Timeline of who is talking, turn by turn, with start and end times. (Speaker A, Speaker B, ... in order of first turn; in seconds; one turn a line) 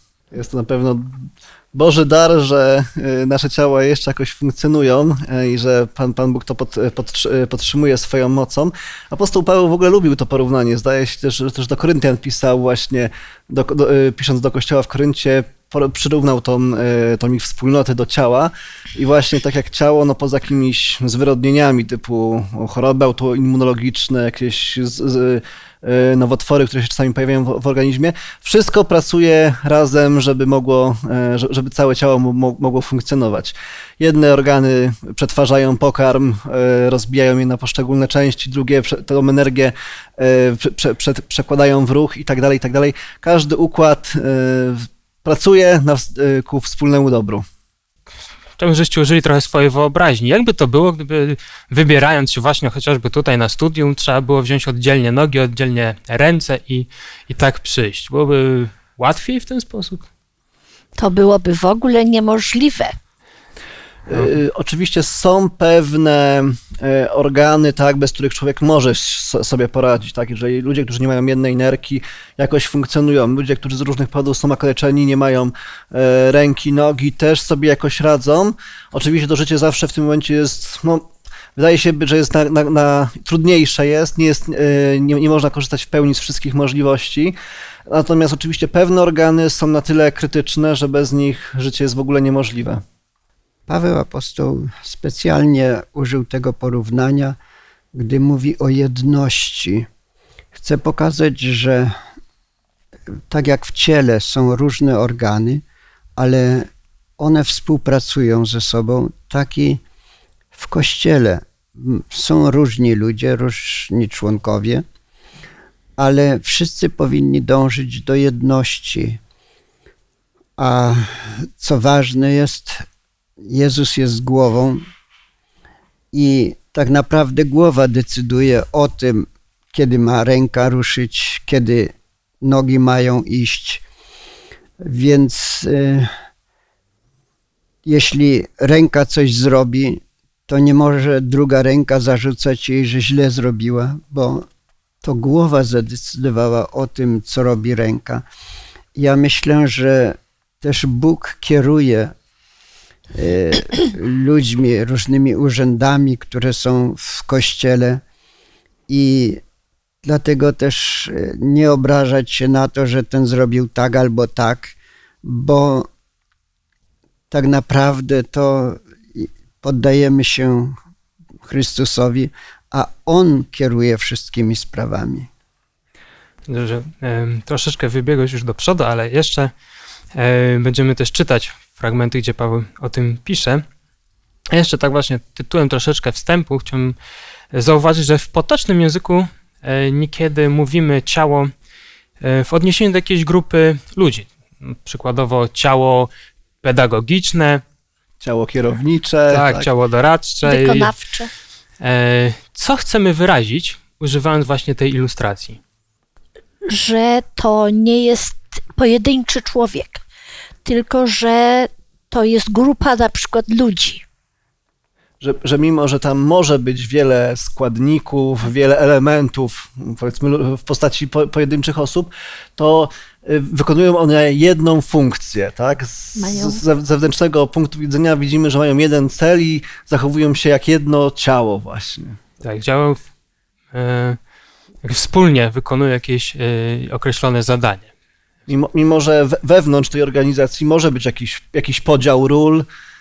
Speaker A: 0.3-47.5
Speaker B: 48.6-60.1
Speaker C: 61.0-62.9
Speaker A: 64.1-87.3
Speaker A: 87.9-92.8
Speaker D: 93.7-97.4
Speaker D: 97.9-99.9
Speaker D: 100.5-102.0
Speaker D: 103.3-105.6
Speaker D: 106.2-109.8
Speaker D: 110.5-114.8
Speaker D: 116.0-119.2
Speaker D: 120.6-122.8
Speaker D: 123.4-124.8
Speaker D: 126.1-133.8
Speaker D: 134.8-136.1
Speaker D: 137.8-144.5
Speaker D: 145.0-148.2
Speaker D: 148.9-152.1
Speaker D: 153.2-158.0
Speaker D: 158.9-159.4
Speaker D: 160.0-165.9
Speaker D: 167.3-170.8
Speaker D: 171.4-175.3
Speaker B: 176.5-179.5
Speaker B: 180.1-183.7
Speaker B: 184.5-187.0
Speaker B: 187.5-191.5
Speaker B: 192.2-196.1
Speaker B: 196.6-197.6
Speaker A: 198.2-199.7
Speaker B: 199.3-200.9
Speaker C: 200.4-201.3
Speaker B: 201.8-205.6
Speaker C: 206.7-210.0
Speaker C: 210.7-214.0
Speaker A: 215.2-232.2
Speaker C: 226.2-226.6
Speaker B: 232.4-233.0
Speaker B: 233.7-234.2
Speaker B: 234.8-237.9
Speaker A: 238.5-242.7